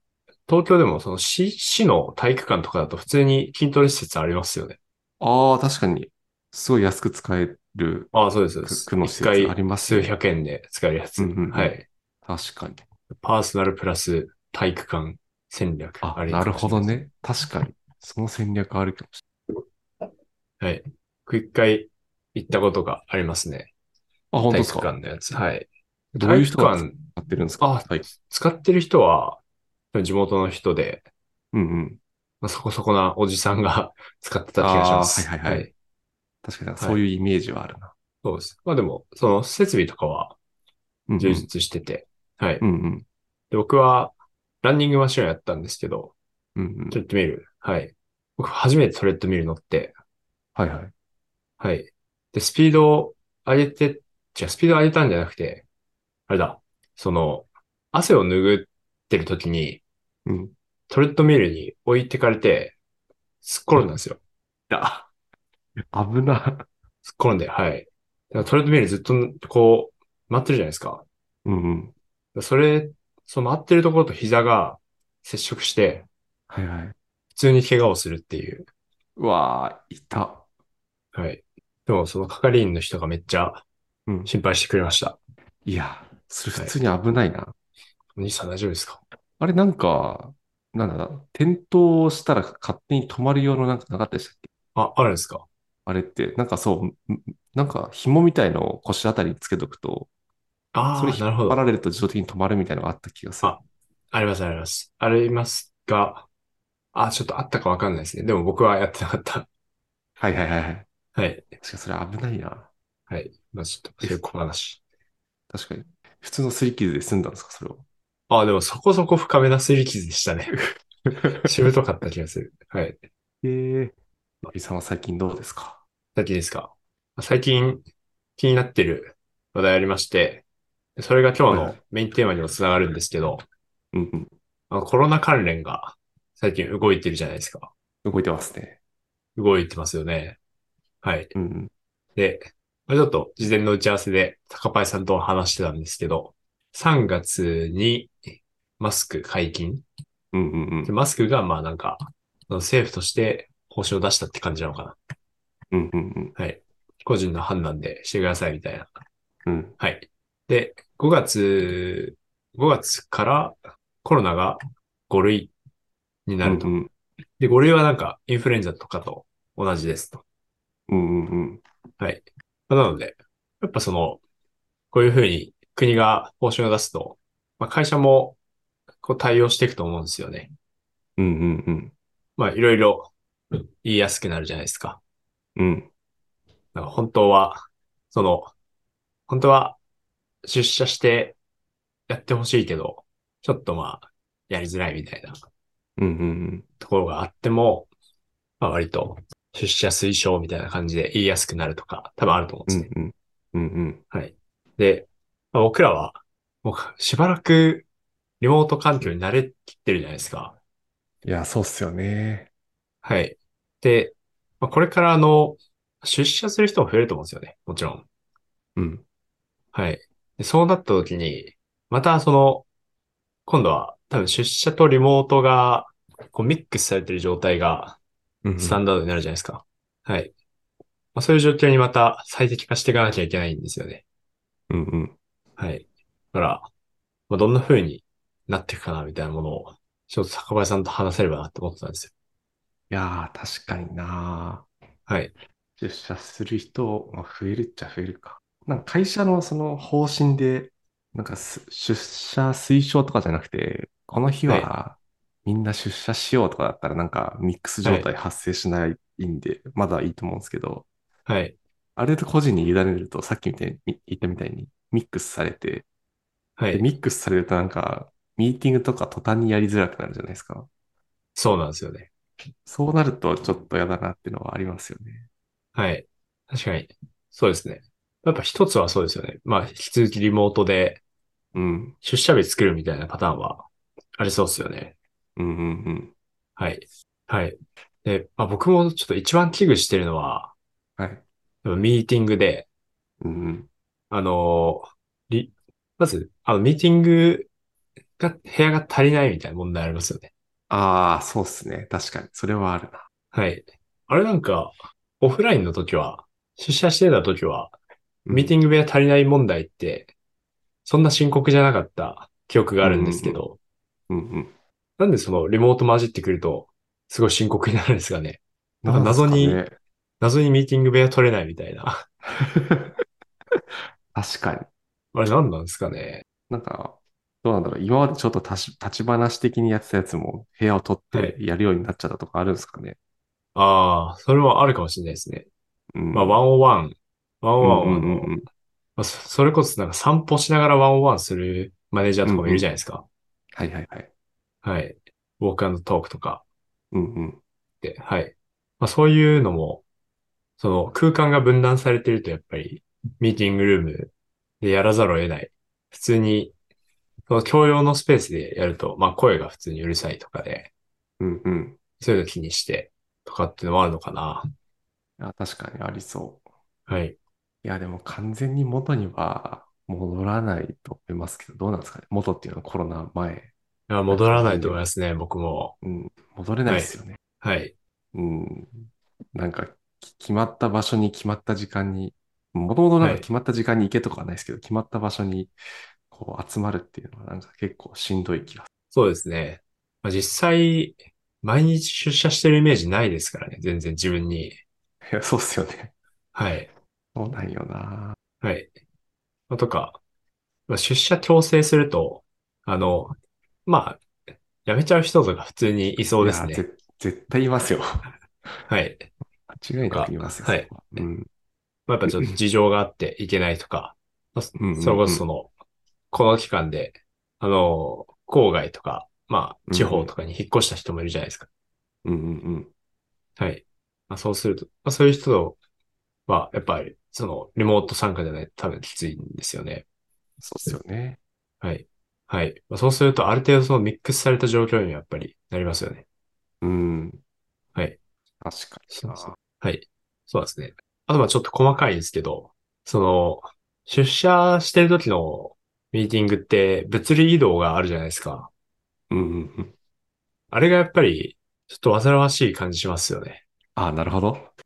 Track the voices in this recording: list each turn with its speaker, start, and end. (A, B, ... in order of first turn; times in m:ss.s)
0:00.5-0:04.8 A
0:05.2-0:10.1 B
0:08.1-0:11.8 A
0:11.2-0:12.8 B
0:13.2-0:17.0 A
0:16.0-0:19.2 B
0:20.6-0:23.7 A
0:24.3-0:24.9 B
0:24.5-0:27.0 A
0:26.2-0:28.1 B
0:27.6-0:29.4 A
0:29.9-0:31.0 A
0:31.5-0:32.0 B
0:32.4-0:35.7 A
0:34.6-0:35.7 B
0:36.4-0:37.9 B
0:38.2-0:40.4 A
0:41.1-0:41.5 B
0:41.2-0:42.6 A
0:42.6-0:43.0 B
0:43.5-0:46.1 A
0:46.6-0:47.0 B
0:46.9-0:49.9 A
0:50.6-0:50.9 B
0:51.6-0:55.6 A
0:56.3-0:59.8 A
1:00.2-1:00.5 B
1:00.9-1:02.8 A
1:03.4-1:04.2 A
1:04.7-1:05.1 B
1:05.8-1:06.6 B
1:07.0-1:11.0 A
1:11.4-1:11.9 B
1:12.3-1:16.1 A
1:16.5-1:16.9 B
1:17.3-1:18.7 A
1:19.2-1:20.4 B
1:21.1-1:23.6 A
1:24.2-1:25.2 A
1:25.6-1:27.5 B
1:28.2-1:29.0 A
1:29.4-1:34.5 B
1:34.7-1:35.4 A
1:35.8-1:40.1 B
1:40.7-1:41.6 A
1:40.9-1:43.6 B
1:43.4-1:46.3 A
1:46.9-1:49.5 A
1:50.2-1:50.9 B
1:51.1-1:51.5 A
1:51.6-1:52.7 B
1:53.1-1:54.8 A
1:55.5-1:57.8 B
1:58.3-2:00.6 A
2:00.5-2:01.5 B
2:01.4-2:03.0 A
2:03.4-2:03.9 B
2:04.5-2:05.8 B
2:06.2-2:07.8 A
2:08.4-2:10.4 A
2:11.0-2:13.4 A
2:11.5-2:11.8 B
2:13.9-2:14.3 B
2:14.7-2:17.7 A
2:18.0-2:18.8 B
2:19.4-2:20.4 A
2:21.0-2:21.3 A
2:21.3-2:21.7 B
2:22.2-2:28.2 A
2:28.8-2:29.8 A
2:30.3-2:30.9 B
2:30.8-2:35.0 A
2:35.7-2:36.3 B
2:36.4-2:38.9 A
2:39.4-2:39.8 B
2:39.8-2:45.5 A
2:46.3-2:46.7 A
2:46.4-2:46.9 B
2:47.4-2:50.2 A
2:50.9-2:51.6 B
2:52.0-2:54.2 A
2:54.9-2:58.4 A
2:59.0-3:00.5 A
3:01.2-3:01.9 B
3:02.4-3:05.0 A
3:05.6-3:05.9 B
3:06.7-3:08.5 A
3:09.3-3:09.8 A
3:10.4-3:11.4 A
3:12.1-3:15.4 A
3:16.0-3:16.6 B
3:16.8-3:17.9 A
3:18.6-3:22.9 A
3:22.7-3:24.0 B
3:24.1-3:27.9 A
3:28.4-3:30.6 A
3:31.2-3:32.5 B
3:33.0-3:38.0 A
3:38.8-3:39.0 B
3:39.7-3:42.6 A
3:43.5-3:48.0 A
3:48.4-3:48.8 B
3:48.6-3:50.3 A
3:51.1-3:54.0 A
3:54.7-3:55.1 B
3:55.6-3:56.7 A
3:57.3-4:02.1 A
4:02.9-4:04.6 B
4:05.1-4:05.3 A
4:05.8-4:20.8 B
4:21.2-4:21.6 A
4:22.0-4:25.8 B
4:26.6-4:26.8 A
4:26.7-4:30.7 B
4:31.4-4:32.1 A
4:32.6-4:35.3 B
4:35.7-4:41.0 A
4:41.5-4:42.0 B
4:42.0-4:43.6 A
4:44.2-4:44.9 A
4:45.4-4:46.1 B
4:46.6-4:50.5 A
4:51.0-4:51.2 B
4:51.6-4:52.7 A
4:53.2-4:53.7 B
4:54.1-4:57.5 A
4:58.2-5:00.3 A
5:00.7-5:03.0 B
5:03.3-5:07.7 A
5:08.2-5:08.5 B
5:08.3-5:10.1 A
5:10.8-5:13.6 A
5:12.8-5:13.4 B
5:14.1-5:14.5 B
5:15.0-5:19.6 A
5:18.8-5:19.7 B
5:20.2-5:22.0 A
5:22.3-5:23.0 B
5:24.1-5:24.7 B
5:25.1-5:26.2 A
5:26.5-5:33.0 B
5:33.5-5:35.5 A
5:35.9-5:36.4 B
5:36.1-5:38.3 A
5:37.6-5:38.4 B
5:39.0-5:43.0 A
5:42.2-5:42.7 B
5:43.5-5:44.1 B
5:44.6-5:46.4 A
5:46.9-5:47.4 B
5:47.8-5:49.8 A
5:50.6-5:56.5 A
5:57.3-6:00.7 A
6:01.2-6:01.8 B
6:02.0-6:04.5 A
6:05.2-6:06.4 B
6:06.9-6:07.2 A
6:07.6-6:13.5 B
6:13.9-6:15.7 A
6:14.1-6:14.8 B
6:15.8-6:17.2 B
6:16.7-6:17.7 A
6:18.1-6:25.5 B
6:23.0-6:23.2 A
6:26.1-6:28.7 B
6:28.9-6:34.6 A
6:35.0-6:35.9 B
6:36.3-6:36.7 A
6:37.1-6:38.2 B
6:38.4-6:38.7 A
6:39.5-6:40.0 A
6:40.7-6:44.0 A
6:44.6-6:46.6 A
6:46.2-6:48.0 B
6:48.7-6:49.1 A
6:49.5-6:51.3 B
6:49.9-6:51.0 A
6:51.9-6:55.5 A
6:52.1-6:52.4 B
6:54.6-6:55.2 B
6:56.1-7:01.5 A
6:59.7-7:00.1 B
7:02.0-7:02.7 B
7:03.4-7:05.6 A
7:06.3-7:09.8 A
7:10.4-7:11.2 B
7:11.6-7:16.0 A
7:16.6-7:17.2 B
7:18.4-7:19.3 B
7:18.9-7:28.5 A
7:29.1-7:29.7 B
7:30.5-7:33.4 A
7:33.8-7:34.5 B